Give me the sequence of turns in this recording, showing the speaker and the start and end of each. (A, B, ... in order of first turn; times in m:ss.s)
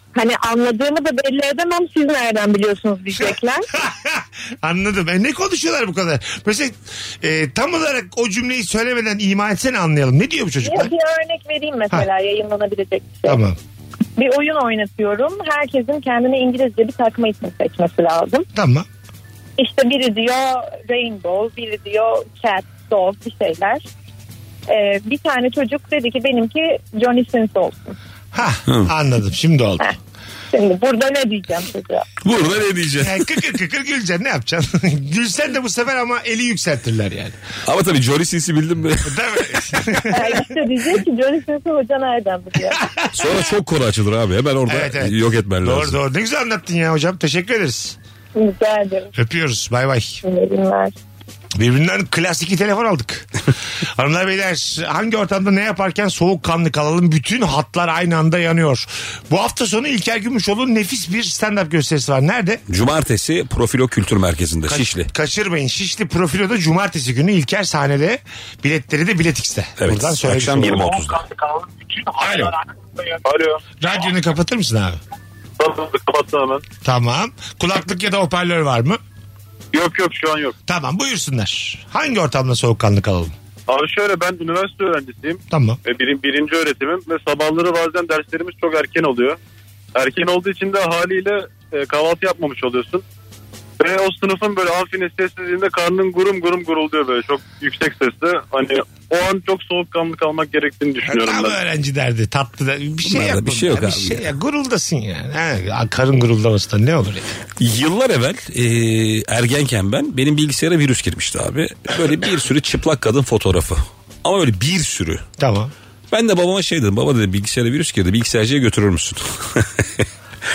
0:00.1-0:03.7 A
0:03.7-0:10.9 B
0:10.6-0:13.4 A
0:13.2-0:13.6 B
0:14.2-0:18.5 A
0:18.5-0:18.9 B
0:19.6-0:23.8 A
0:24.7-0:28.0 A
0:28.3-0:29.9 B
0:30.5-0:32.0 A
0:32.2-0:33.3 C
0:33.0-0:37.4 B
0:37.6-0:39.1 C
0:39.0-0:40.5 B
0:40.1-0:42.8 A
0:42.8-0:43.1 B
0:43.1-0:46.0 C
0:44.7-0:48.0 B
0:48.4-0:49.1 A
0:49.1-0:50.2 B
0:50.2-0:50.9 A
0:51.6-0:53.3 B
0:53.9-1:02.6 B
1:02.7-1:05.1 C
1:04.7-1:11.2 B
1:09.8-1:11.2 C
1:12.1-1:12.5 B
1:13.2-1:13.6 D
1:13.8-1:15.0 B
1:15.6-1:16.6 D
1:16.8-1:19.0 B
1:19.7-1:20.5 D
1:20.7-1:23.3 B
1:23.7-1:29.4 D
1:25.5-1:25.8 B
1:30.0-1:33.0 D
1:33.8-1:41.6 D
1:41.1-1:47.3 B
1:43.0-1:44.3 C
1:47.6-1:55.2 C
1:55.4-1:55.7 B
1:56.1-2:00.0 C